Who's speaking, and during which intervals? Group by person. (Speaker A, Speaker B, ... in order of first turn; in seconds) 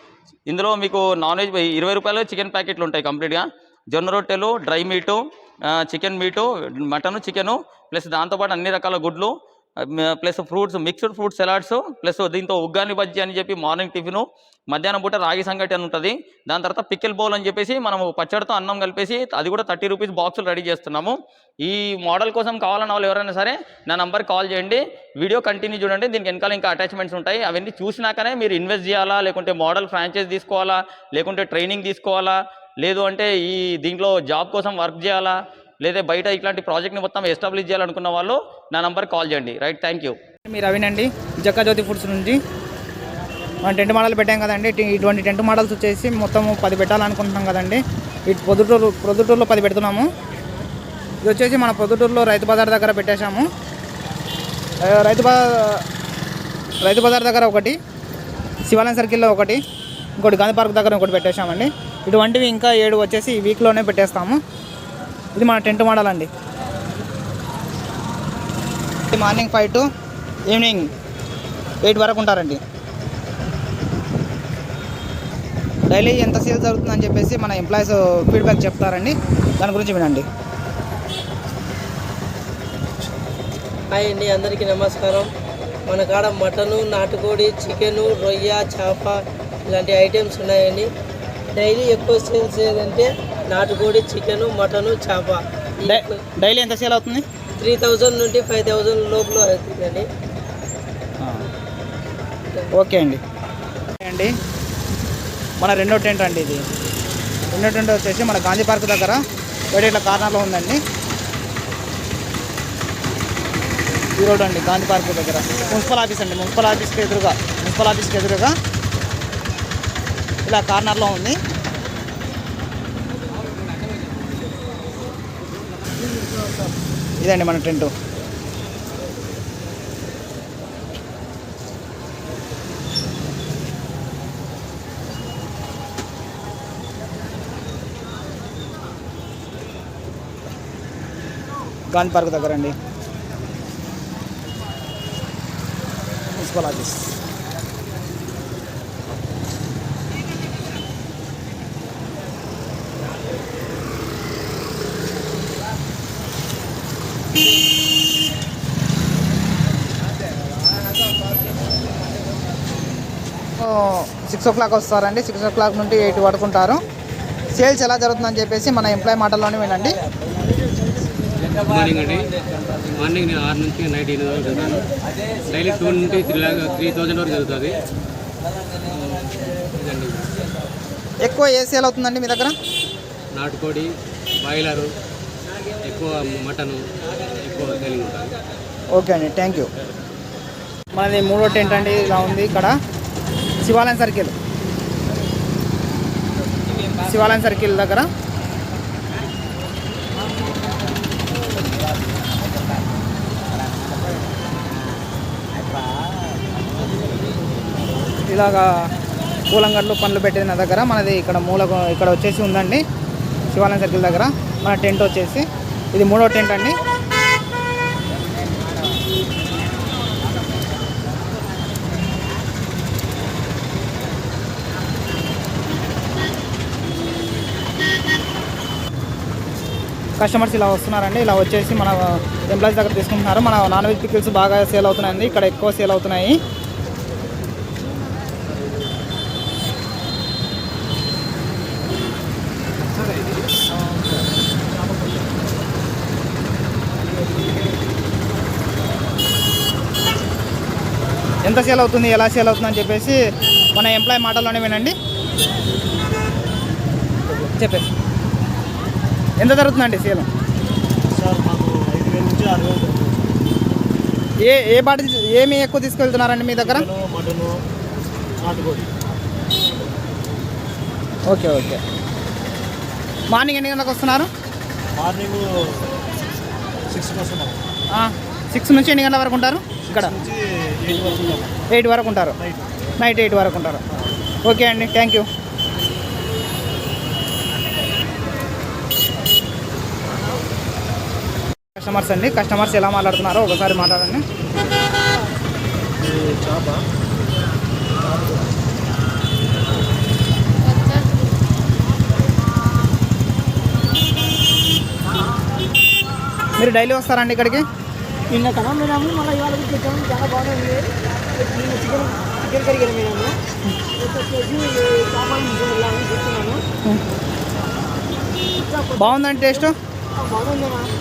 Speaker A: 0.5-40.2
Speaker B: 40.5-42.4, 43.6-50.1, 51.2-53.5, 54.8-55.8, 56.8-57.8, 58.7-59.6, 60.2-64.4, 65.3-66.3, 69.1-69.9, 70.5-70.9, 71.8-72.6, 75.9-80.3, 95.8-97.2, 101.2-101.4, 102.7-103.2, 104.0-104.3, 105.6-106.6, 107.5-109.2, 109.7-110.8, 114.2-118.5, 120.4-121.4, 127.2-127.9, 141.9-142.7, 146.3-147.1, 163.6-166.8, 167.6-170.0, 181.2-182.5, 188.9-189.7, 190.9-192.8, 193.6-194.3, 197.0-198.1, 208.2-208.7, 209.5-212.8, 213.5-216.8, 230.2-236.4, 251.4-253.2, 253.7-254.9, 257.3-257.9, 259.4-260.3, 264.4-266.8, 271.3-271.8, 273.3-274.3, 277.9-280.1, 281.7-282.4, 283.0-283.8, 284.4-285.2, 291.8-294.2, 306.6-307.6, 318.9-319.7
Speaker C: 83.9-85.3, 85.9-90.9, 91.5-96.2, 97.6-100.1
Speaker D: 171.5-172.2, 173.0-174.9, 175.4-177.8, 178.9-180.3, 183.3-183.9, 184.4-184.9, 185.8-188.3
Speaker E: 243.7-244.2, 244.9-245.1, 261.1-263.4, 266.6-267.6, 268.4-268.9, 274.9-275.9, 276.9-277.6, 279.8-281.6, 282.4-282.7, 296.0-296.8
Speaker F: 308.3-313.3, 314.0-316.6, 318.6-320.9